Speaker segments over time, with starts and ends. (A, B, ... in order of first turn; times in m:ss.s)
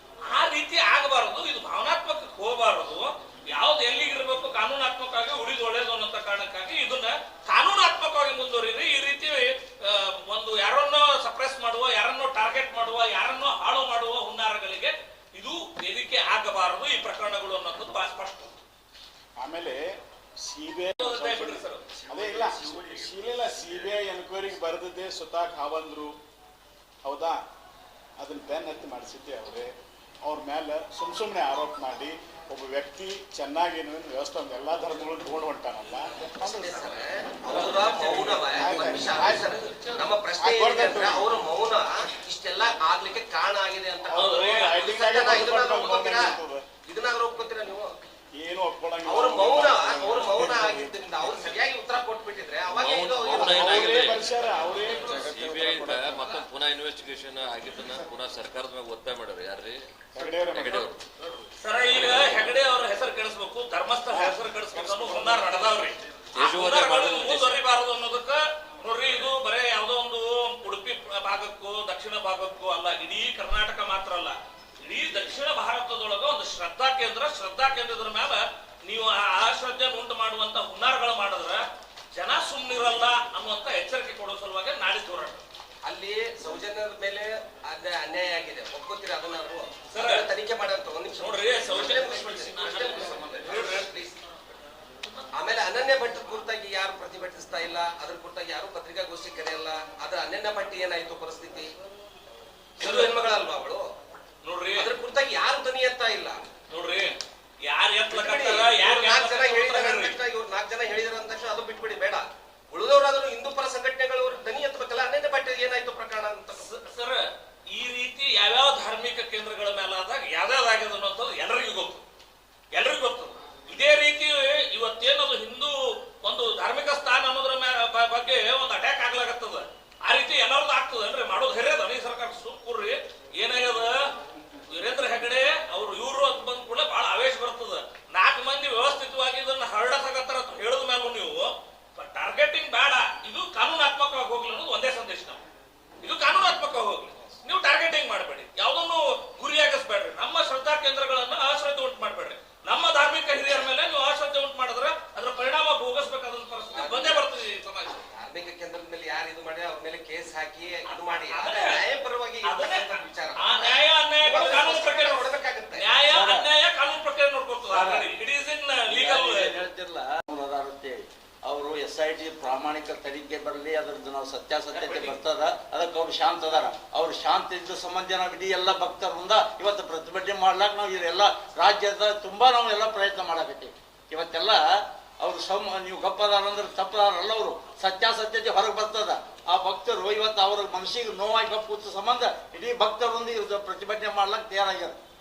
0:00.2-0:18.5 A
0:19.4-0:19.8 B
0:20.4-0:26.2 B
0:21.0-0:21.8 A
0:27.0-0:27.4 B
0:28.2-0:37.1 B
0:36.4-0:46.3 C
0:37.5-0:38.8 A
0:38.6-0:39.7 B
0:40.4-0:41.4 B
0:44.1-0:46.6 B
0:44.1-0:45.2 A
0:46.8-0:47.9 C
0:48.4-0:50.9 B
0:49.0-0:54.2 C
0:52.7-1:01.1 D
0:53.3-0:56.4 B
1:00.1-1:00.9 B
1:01.6-1:21.6 A
1:04.1-1:05.8 B
1:06.3-1:07.6 D
1:22.1-1:25.4 A
1:25.8-1:34.1 C
1:29.9-1:30.3 A
1:31.2-1:33.9 A
1:35.3-1:41.7 C
1:42.8-1:43.8 C
1:42.8-1:43.1 A
1:44.4-1:44.9 A
1:44.8-1:46.4 C
1:46.7-1:47.2 A
1:47.7-1:50.2 A
1:48.1-1:56.7 C
1:56.6-2:02.0 A
2:02.7-2:14.0 A
2:14.7-2:25.4 A
2:26.0-2:38.0 A
2:36.7-2:37.2 C
2:38.1-2:45.9 C
2:40.8-2:41.8 A
2:42.4-2:49.6 A
2:46.0-2:46.5 E
2:47.7-2:48.0 E
2:48.9-3:15.0 E